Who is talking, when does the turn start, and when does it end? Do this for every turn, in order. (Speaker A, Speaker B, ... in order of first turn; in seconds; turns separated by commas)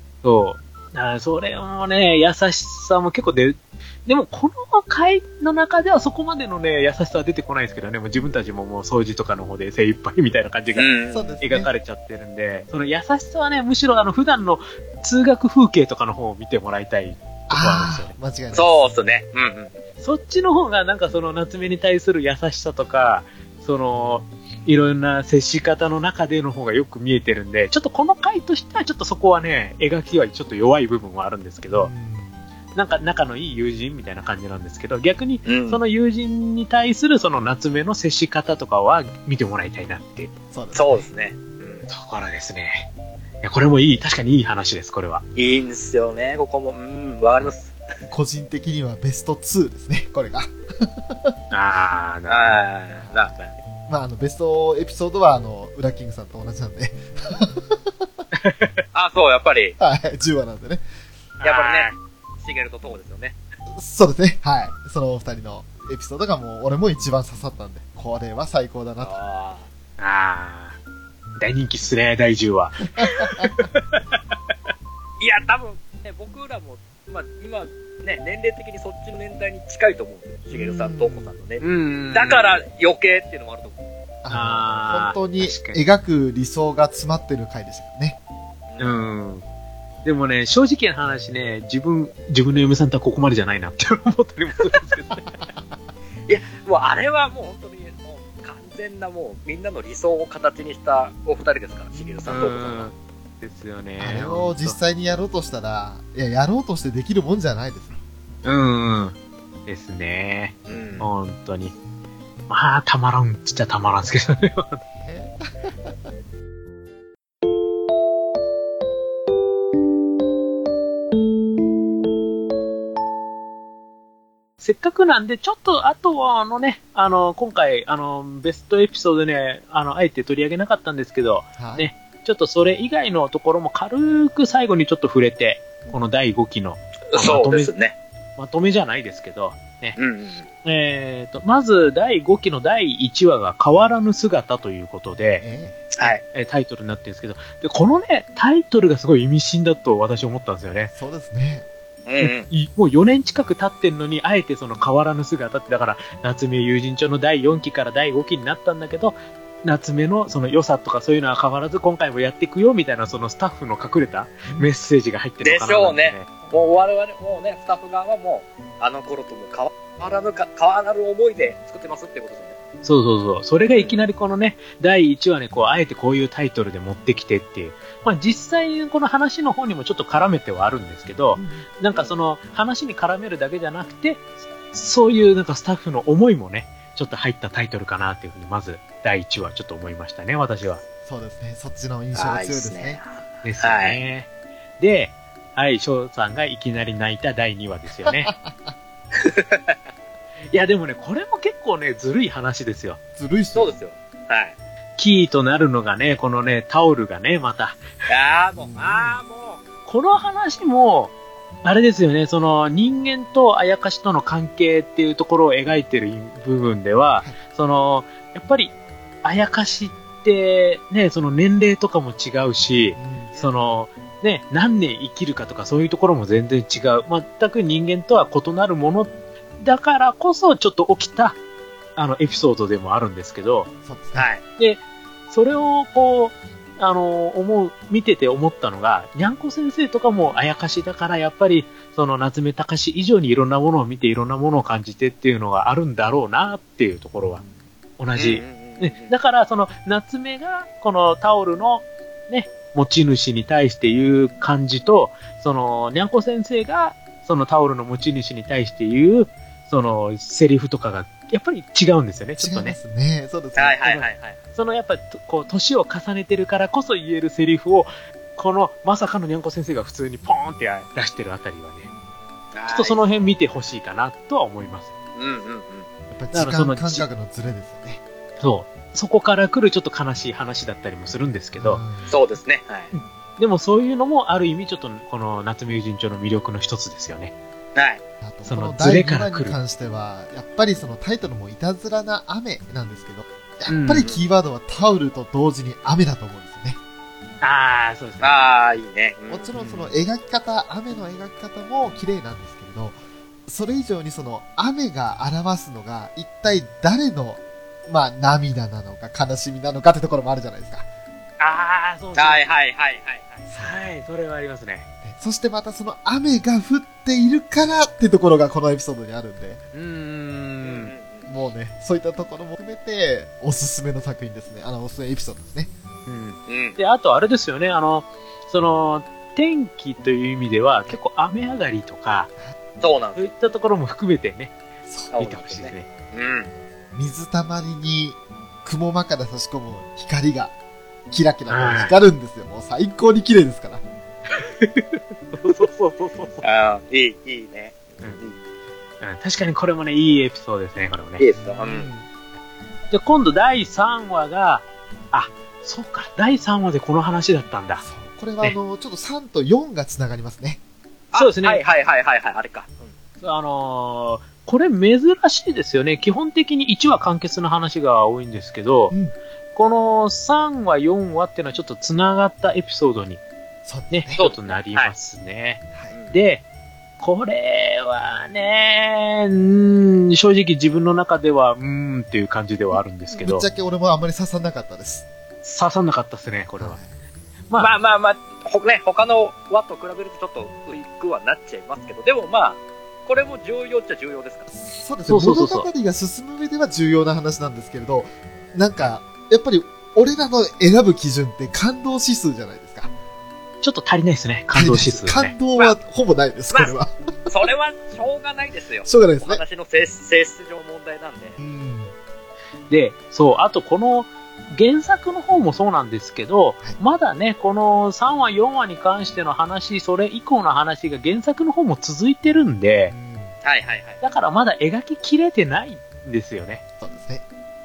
Speaker A: 0.2-18.1, Speaker B: 10.7-11.4, Speaker C: 11.1-11.7, Speaker C: 17.5-18.9, Speaker B: 18.5-19.8, Speaker A: 20.0-31.9, Speaker C: 31.7-32.4, Speaker A: 32.7-40.3, Speaker B: 35.5-35.8, Speaker C: 40.5-41.1, Speaker B: 40.7-41.9, Speaker A: 41.9-42.9, Speaker A: 43.4-45.2, Speaker B: 45.4-47.8, Speaker C: 48.1-51.3, Speaker A: 51.5-52.6, Speaker B: 52.3-53.6, Speaker C: 53.0-53.3, Speaker C: 53.9-58.1, Speaker A: 58.3-58.7, Speaker B: 58.9-59.7, Speaker C: 59.8-60.8, Speaker A: 61.4-62.0, Speaker B: 61.4-61.9, Speaker B: 62.4-63.4, Speaker C: 63.7-69.1, Speaker B: 69.0-69.6, Speaker A: 70.0-70.8, Speaker A: 71.4-74.2, Speaker C: 73.0-73.5, Speaker B: 75.2-83.8, Speaker C: 80.5-81.3, Speaker A: 81.6-82.6, Speaker C: 84.2-88.2, Speaker A: 84.3-85.8, Speaker B: 88.7-89.0, Speaker A: 88.8-89.4, Speaker A: 90.0-95.4, Speaker B: 96.3-102.9, Speaker C: 101.9-102.2, Speaker A: 102.3-104.8, Speaker C: 104.0-108.0, Speaker A: 108.4-111.7, Speaker B: 110.7-111.1, Speaker A: 112.5-114.8, Speaker C: 115.0-116.0, Speaker A: 124.6-137.7, Speaker C: 131.6-131.9, Speaker B: 137.1-137.9, Speaker A: 138.4-140.0, Speaker B: 140.0-140.4, Speaker A: 140.6-145.4, Speaker C: 145.4-145.9, Speaker B: 145.9-146.2, Speaker A: 146.0-150.9, Speaker C: 150.9-151.7, Speaker B: 152.1-152.5, Speaker A: 152.2-166.3, Speaker B: 165.4-172.6, Speaker A: 172.8-190.8, Speaker B: 173.7-174.0, Speaker C: 181.3-181.7, Speaker C: 191.0-193.0, Speaker B: 192.1-194.0, Speaker A: 193.4-198.3, Speaker C: 198.1-198.7, Speaker B: 199.2-199.8, Speaker A: 200.5-203.0, Speaker C: 203.2-203.8, Speaker B: 203.6-204.5, Speaker A: 205.0-207.8, Speaker B: 208.1-209.6, Speaker C: 208.6-209.2, Speaker A: 209.9-211.1, Speaker A: 211.6-231.4, Speaker C: 222.9-223.4, Speaker A: 231.9-233.7, Speaker C: 233.8-234.3, Speaker B: 234.1-234.4, Speaker A: 234.6-247.4, Speaker A: 248.0-262.8, Speaker B: 248.2-249.1, Speaker C: 262.4-264.1, Speaker B: 263.6-264.4, Speaker A: 264.6-271.9, Speaker B: 272.5-273.0, Speaker A: 272.7-274.9, Speaker B: 275.1-275.9, Speaker C: 276.1-278.0, Speaker A: 276.3-277.1, Speaker A: 278.4-281.8, Speaker C: 281.6-282.1, Speaker B: 282.1-282.9, Speaker A: 282.9-287.3, Speaker B: 287.7-288.0, Speaker C: 288.2-296.8, Speaker A: 288.4-289.6, Speaker A: 293.7-294.1, Speaker A: 297.4-298.4, Speaker B: 298.2-299.5, Speaker C: 299.3-310.9, Speaker A: 311.4-312.4, Speaker B: 312.1-313.4, Speaker C: 313.5-313.8, Speaker A: 313.5-314.9, Speaker C: 315.0-319.6, Speaker A: 319.7-320.9, Speaker B: 320.6-321.3, Speaker C: 321.3-325.7, Speaker A: 326.1-332.3, Speaker B: 326.5-326.8, Speaker B: 332.8-333.3, Speaker A: 333.1-334.5, Speaker C: 334.9-335.1, Speaker B: 335.1-336.5, Speaker A: 335.2-335.9, Speaker C: 336.9-340.5, Speaker C: 341.1-343.8, Speaker A: 341.5-341.9, Speaker A: 344.3-346.4, Speaker B: 346.4-348.4, Speaker A: 349.0-351.2, Speaker B: 351.2-351.9, Speaker C: 351.4-352.1, Speaker A: 352.9-357.8, Speaker C: 357.8-360.6, Speaker B: 361.1-362.9, Speaker A: 361.1-361.6, Speaker A: 363.2-368.9, Speaker A: 369.5-373.2, Speaker C: 373.6-374.2, Speaker A: 373.9-375.6, Speaker B: 374.2-374.9, Speaker B: 375.9-376.2, Speaker A: 376.1-376.4, Speaker A: 377.0-383.5, Speaker C: 383.1-385.1, Speaker A: 385.4-386.8, Speaker C: 386.6-386.9, Speaker B: 387.6-394.5, Speaker C: 394.5-402.9, Speaker A: 395.1-395.7, Speaker A: 403.6-405.3, Speaker C: 404.5-407.3, Speaker B: 407.3-411.4, Speaker C: 408.8-409.4, Speaker C: 411.4-411.9, Speaker A: 412.7-422.9, Speaker C: 422.9-423.4, Speaker B: 423.4-424.0, Speaker A: 424.0-426.6, Speaker C: 426.8-427.2